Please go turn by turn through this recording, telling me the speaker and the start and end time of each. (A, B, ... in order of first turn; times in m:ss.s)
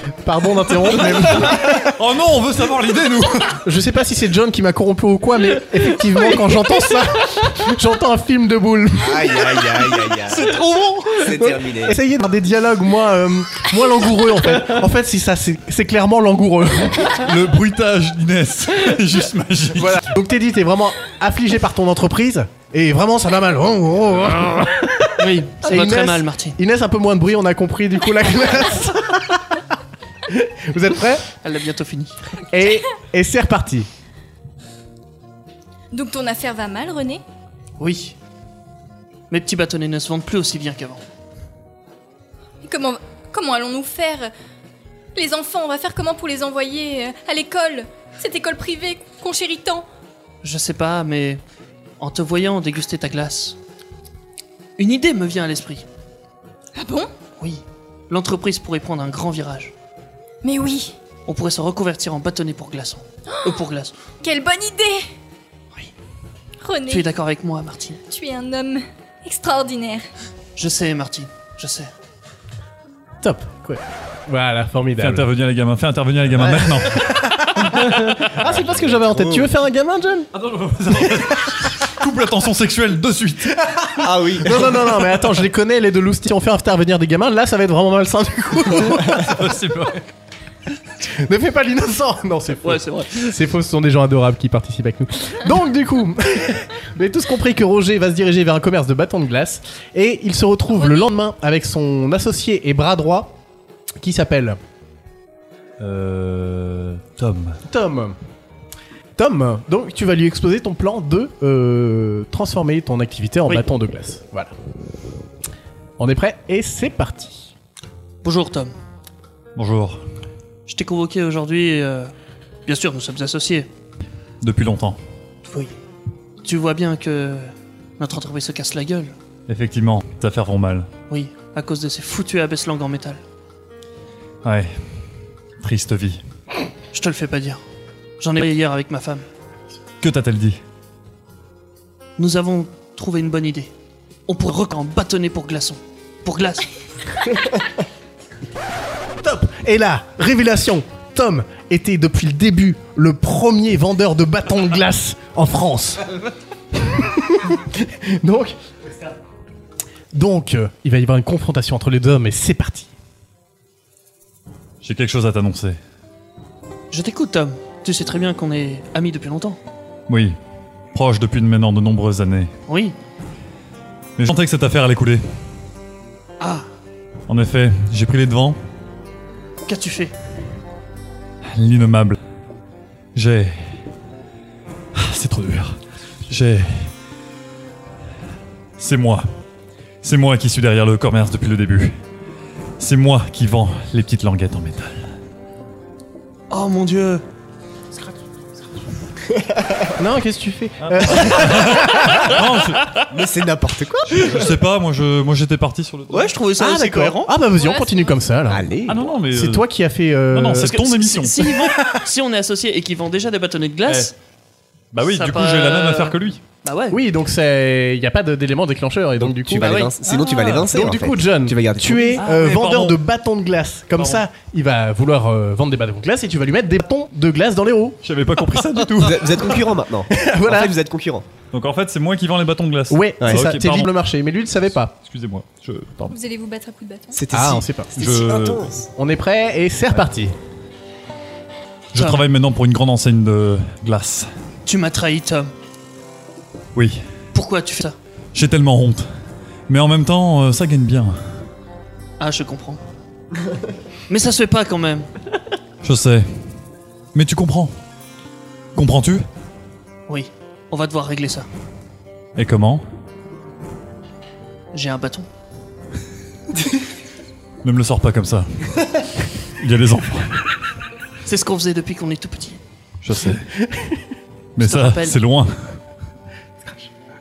0:00.2-0:02.0 A
0:01.3-0:03.6 B
0:03.6-0:09.8 A
0:09.0-0:10.6 C
0:11.2-0:12.0 C
0:11.4-0:17.3 A
0:17.1-0:20.0 B
0:19.7-0:29.6 A
0:25.2-0:26.6 D
0:30.3-0:31.2 A
0:31.4-0:32.2 D
0:32.5-0:33.9 A
0:35.9-0:37.2 E
0:37.8-0:38.2 D
0:39.3-0:41.0 D
0:42.6-0:44.3 E
0:45.1-0:49.8 E
0:50.4-0:51.4 D
0:52.0-0:53.6 D
0:54.8-0:55.8 D
0:56.8-0:57.1 E
0:57.4-0:59.7 D
1:00.4-1:00.9 E
1:01.3-1:03.9 D
1:03.3-1:03.6 E
1:04.2-1:05.0 E
1:06.6-1:07.1 E
1:06.8-1:08.0 D
1:08.0-1:10.1 E
1:10.6-1:11.9 D
1:13.2-1:15.3 A
1:15.0-1:17.1 B
1:16.7-1:20.3 A
1:18.1-1:19.5 C
1:20.3-1:23.7 B
1:21.0-1:21.4 A
1:24.0-1:24.7 C
1:24.4-1:29.4 A
1:28.8-1:30.0 B
1:31.0-1:43.3 A
1:32.6-1:33.2 D
1:40.7-1:41.1 E
1:44.0-1:44.6 A
1:45.8-1:47.6 B
1:47.6-1:48.2 A
1:49.2-1:54.5 A
1:56.0-1:57.5 A
1:58.2-1:58.7 D
1:59.6-2:00.0 B
2:00.7-2:02.1 D
2:02.6-2:03.7 D
2:04.4-2:05.0 B
2:05.4-2:05.7 D
2:06.4-2:09.1 D
2:09.5-2:10.9 B
2:11.1-2:13.2 D
2:14.4-2:15.0 B
2:15.6-2:16.2 B
2:16.9-2:17.6 D
2:18.2-2:19.2 D
2:20.0-2:20.6 B
2:22.2-2:23.7 D
2:24.3-2:26.7 D
2:29.2-2:36.1 A
2:36.8-2:38.6 A
2:40.1-2:42.9 A
2:44.8-2:45.8 B
2:46.9-2:49.6 D
2:50.1-2:50.4 B
2:50.9-2:52.5 B
2:52.7-2:53.0 D
2:54.2-2:55.2 B
2:56.4-2:56.7 D
2:57.3-2:58.6 B
2:59.6-3:00.1 D
3:01.5-3:02.2 B
3:03.1-3:03.6 B
3:04.9-3:05.8 B
3:06.3-3:06.9 B
3:08.8-3:09.2 B
3:10.0-3:12.0 B
3:12.8-3:15.0 B
3:16.5-3:17.2 D
3:19.4-3:19.9 C
3:20.0-3:22.3 A
3:20.8-3:23.0 B
3:23.1-3:24.5 C
3:24.1-3:26.4 B
3:26.1-3:27.3 D
3:26.6-3:28.7 A
3:27.6-3:28.2 E
3:28.5-3:29.1 C
3:28.9-3:29.6 B
3:29.3-3:30.8 A
3:30.3-3:31.5 B
3:30.6-3:34.1 D
3:31.8-3:32.0 A
3:33.9-3:34.1 B
3:34.9-3:36.4 B
3:35.0-3:37.0 D
3:36.9-3:39.8 A
3:39.2-3:42.2 C
3:39.6-3:40.6 D
3:40.7-3:48.0 A
3:42.2-3:43.0 B
3:44.0-3:44.2 B
3:48.0-3:49.6 B
3:48.5-3:48.8 A
3:49.0-3:51.2 C
3:50.1-3:50.8 A
3:51.5-3:53.9 B
3:52.9-3:54.9 A
3:53.2-3:53.5 C
3:55.0-3:56.1 B
3:56.1-3:57.2 E
3:57.1-3:58.9 C
3:57.3-3:57.9 A
3:58.0-3:58.7 B
3:59.0-4:00.4 A
4:01.9-4:04.3 B
4:01.9-4:02.2 D
4:04.6-4:05.5 D
4:06.7-4:07.0 B
4:07.3-4:08.0 D
4:08.3-4:09.1 B
4:09.7-4:11.4 B
4:12.2-4:12.8 D
4:14.1-4:15.1 D
4:15.8-4:16.3 B
4:17.1-4:17.7 B
4:18.7-4:19.2 B
4:20.1-4:21.5 D
4:22.4-4:22.8 B
4:24.7-4:25.3 D
4:27.6-4:29.0 B
4:29.6-4:30.5 B
4:31.2-4:32.6 D
4:33.0-4:33.5 B
4:33.6-4:34.0 A
4:34.6-4:35.8 B
4:34.6-4:35.2 D